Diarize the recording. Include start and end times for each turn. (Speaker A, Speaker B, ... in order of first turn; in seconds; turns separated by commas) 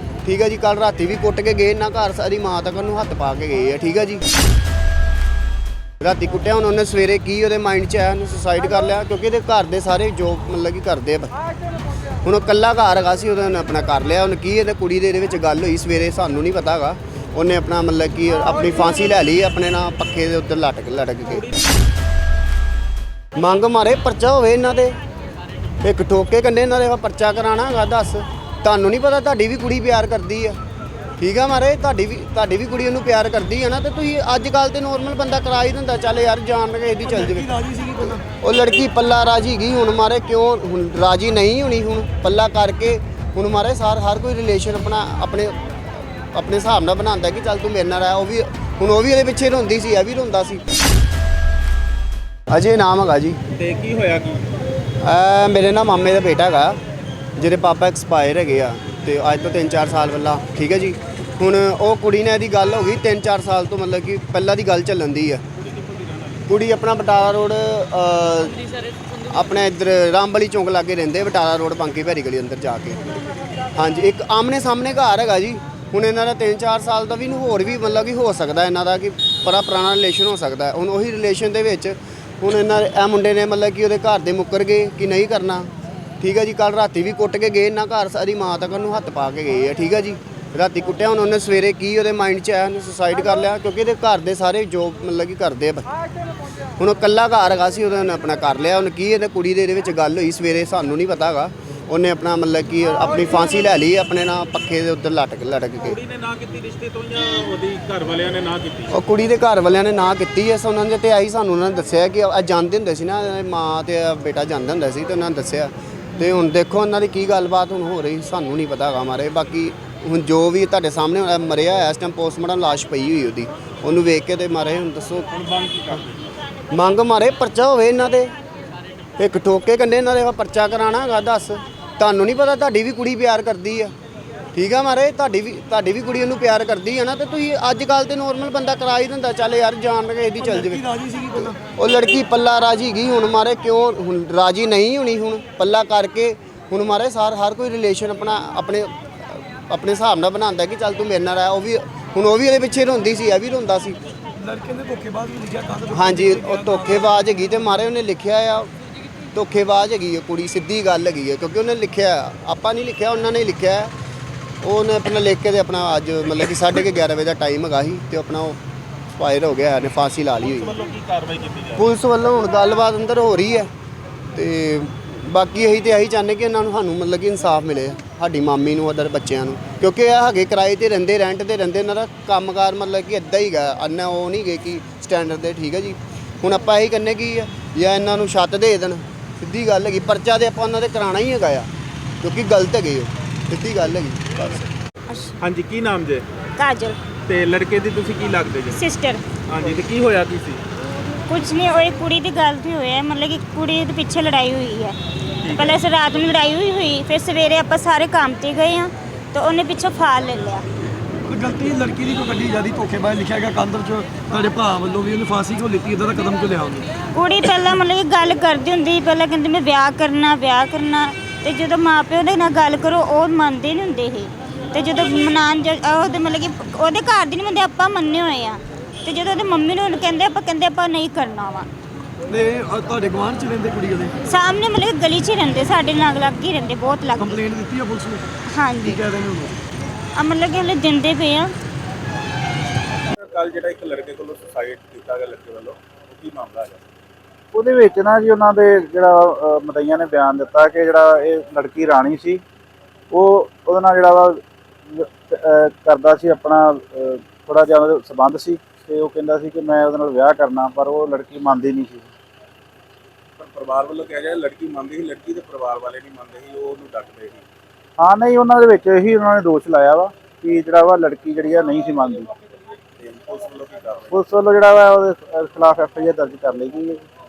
Speaker A: 0.2-4.2, Speaker A: 6.0-11.3, Speaker A: 12.2-21.5, Speaker A: 23.4-24.9, Speaker A: 25.8-30.6, Speaker A: 31.2-37.5, Speaker B: 37.0-38.2, Speaker A: 38.0-45.5, Speaker A: 46.3-50.6, Speaker A: 52.5-53.4, Speaker C: 53.5-54.4, Speaker A: 55.0-56.8, Speaker A: 57.4-65.4, Speaker C: 65.6-66.5, Speaker A: 66.5-68.6, Speaker A: 69.3-73.0, Speaker A: 73.7-95.8, Speaker A: 96.8-106.0, Speaker C: 105.8-108.9, Speaker A: 108.9-125.3, Speaker C: 125.3-126.3, Speaker A: 126.7-128.3, Speaker A: 129.2-133.9, Speaker A: 134.5-140.8, Speaker B: 140.4-141.6, Speaker A: 141.4-154.0, Speaker B: 154.3-157.1, Speaker A: 155.9-158.7, Speaker A: 159.3-163.9, Speaker A: 164.6-168.6, Speaker A: 169.2-170.7, Speaker C: 170.4-171.9, Speaker A: 171.8-173.7, Speaker A: 174.3-191.7, Speaker A: 192.2-194.6, Speaker D: 195.1-195.4, Speaker C: 195.4-196.2, Speaker D: 196.6-197.0, Speaker C: 197.2-198.8, Speaker D: 198.7-199.2, Speaker C: 199.5-200.6, Speaker D: 201.3-205.0, Speaker C: 205.4-205.8, Speaker D: 205.5-210.6, Speaker B: 211.2-217.0, Speaker D: 217.1-231.7, Speaker B: 232.3-234.2, Speaker D: 234.3-237.4, Speaker B: 237.2-239.6, Speaker D: 238.5-239.0, Speaker D: 240.1-241.5, Speaker C: 243.0-246.8, Speaker E: 247.5-252.4, Speaker E: 253.1-262.1, Speaker C: 263.4-267.4, Speaker E: 268.0-272.3, Speaker C: 273.0-274.1, Speaker E: 274.1-277.0